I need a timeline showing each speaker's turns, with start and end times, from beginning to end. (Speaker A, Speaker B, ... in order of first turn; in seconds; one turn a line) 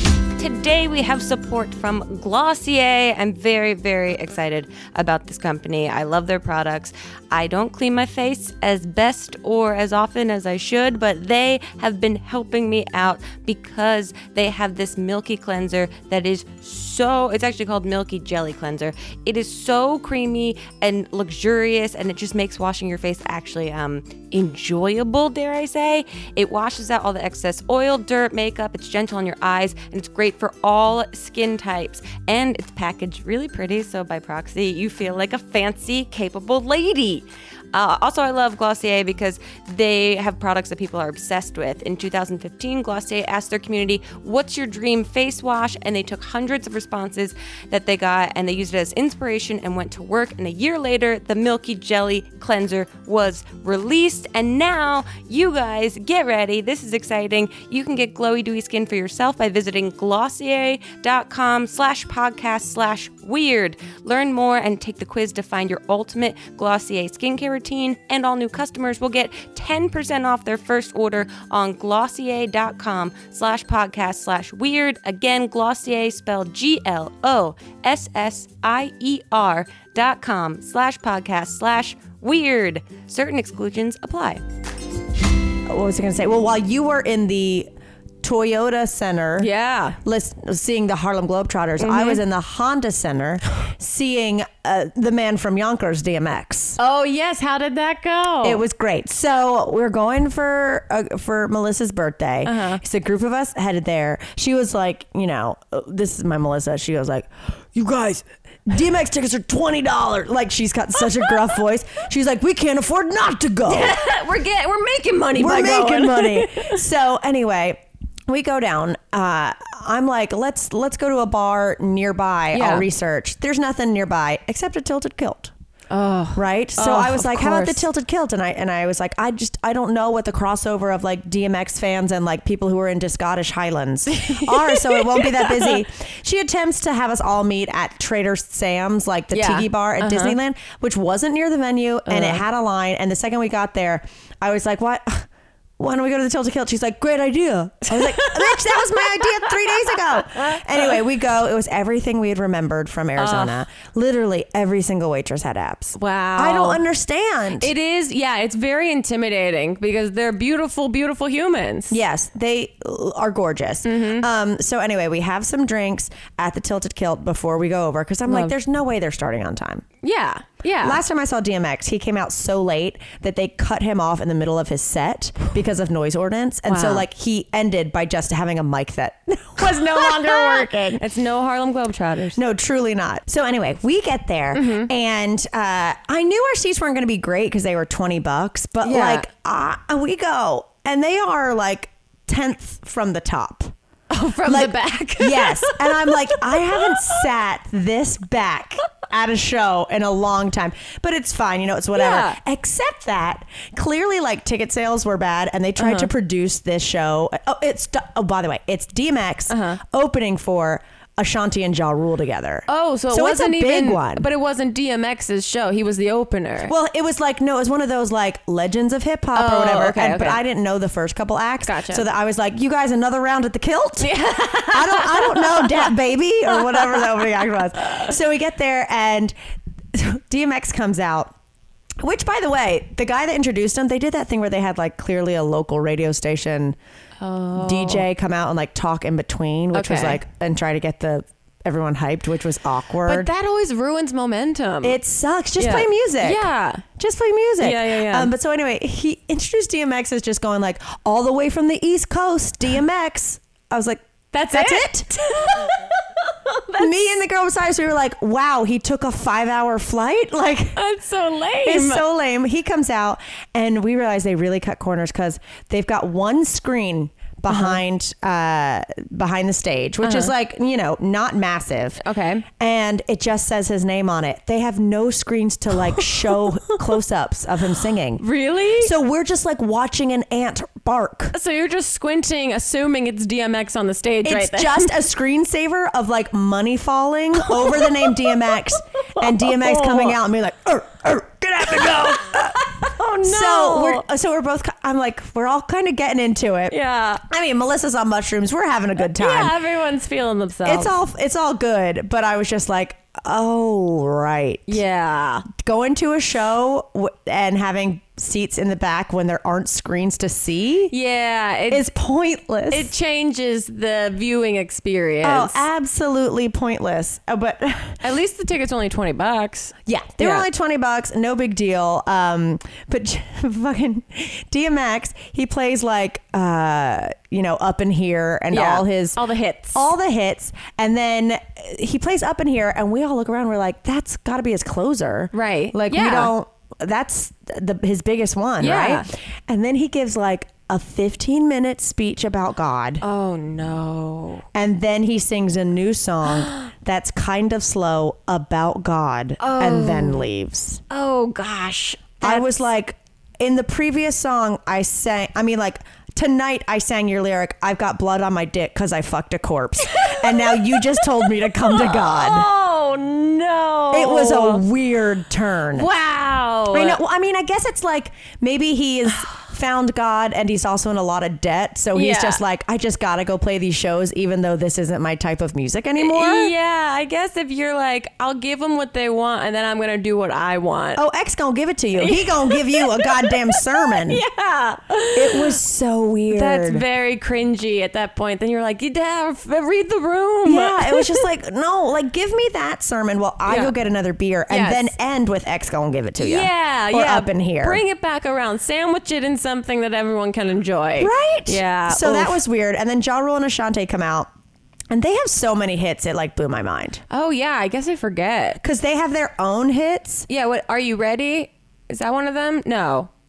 Speaker A: 0.4-84.4
Speaker B: 85.7-87.7
Speaker B: 88.2-89.5
Speaker C: 89.4-90.0
Speaker B: 90.0-96.8
Speaker C: 91.8-92.2
Speaker C: 96.8-98.6
Speaker B: 98.4-114.1
Speaker C: 102.4-102.8
Speaker C: 113.7-116.8
Speaker B: 115.3-125.5
Speaker C: 122.5-122.8
Speaker C: 125.9-127.8
Speaker B: 126.3-145.3
Speaker C: 134.1-135.8
Speaker C: 139.3-140.4
Speaker C: 142.1-142.4
Speaker B: 145.8-157.7
Speaker C: 147.9-150.6
Speaker C: 153.2-153.6
Speaker C: 156.0-156.8
Speaker C: 157.6-162.0
Speaker B: 161.9-169.8
Speaker C: 163.8-164.3
Speaker C: 168.3-168.5
Speaker C: 170.0-171.0
Speaker B: 170.8-181.0
Speaker C: 176.7-177.0
Speaker C: 179.6-182.4
Speaker B: 182.3-193.7
Speaker C: 184.5-184.9
Speaker C: 188.8-189.3
Speaker C: 194.1-197.0
Speaker B: 194.4-214.3
Speaker C: 201.9-202.4
Speaker C: 205.8-206.1
Speaker C: 209.5-209.8
Speaker C: 212.7-216.7
Speaker B: 216.7-224.1
Speaker C: 219.3-220.4
Speaker C: 221.7-222.0
Speaker C: 224.0-225.9
Speaker B: 224.7-229.3
Speaker C: 226.5-227.2
Speaker C: 227.8-228.1
Speaker B: 229.9-231.3
Speaker B: 232.0-236.8
Speaker C: 237.2-238.0
Speaker B: 237.6-243.3
Speaker C: 239.7-240.2
Speaker C: 243.0-244.9
Speaker B: 244.8-246.4
Speaker C: 245.6-246.8
Speaker B: 246.9-255.1
Speaker C: 247.6-248.3
Speaker C: 254.3-256.9
Speaker B: 256.8-260.8
Speaker C: 260.8-262.0
Speaker B: 261.6-272.0
Speaker C: 267.5-267.8
Speaker C: 270.0-270.3
Speaker C: 272.0-272.4
Speaker B: 272.6-278.2
Speaker C: 278.2-278.9
Speaker B: 278.8-281.3
Speaker C: 281.3-285.0
Speaker B: 284.2-292.6
Speaker C: 287.4-288.6
Speaker C: 289.1-290.1
Speaker C: 291.7-294.0
Speaker B: 293.2-299.5
Speaker C: 296.7-297.2
Speaker C: 299.0-300.9
Speaker B: 300.6-304.8
Speaker C: 304.7-305.4
Speaker B: 305.5-310.9
Speaker C: 310.9-311.9
Speaker B: 311.7-312.9
Speaker C: 312.7-315.6
Speaker B: 315.2-318.0
Speaker C: 318.0-320.4
Speaker B: 319.9-329.2
Speaker C: 328.5-329.8
Speaker B: 329.7-343.0
Speaker C: 335.3-336.3
Speaker C: 338.6-339.1
Speaker C: 343.0-344.4
Speaker B: 344.5-350.8
Speaker C: 349.4-350.2
Speaker C: 350.9-352.5
Speaker B: 352.2-362.5
Speaker C: 359.9-364.6
Speaker B: 363.9-365.9
Speaker C: 365.7-367.0
Speaker B: 366.7-376.5
Speaker C: 371.9-372.4
Speaker C: 376.0-381.0
Speaker B: 380.9-384.2
Speaker C: 382.0-385.5
Speaker B: 385.1-386.8
Speaker C: 386.3-391.2
Speaker B: 390.4-397.8
Speaker C: 393.4-393.7
Speaker C: 394.5-394.9
Speaker C: 396.2-402.4
Speaker B: 401.0-404.3
Speaker B: 404.9-407.0
Speaker C: 407.1-408.6
Speaker B: 408.6-410.2
Speaker C: 410.3-413.1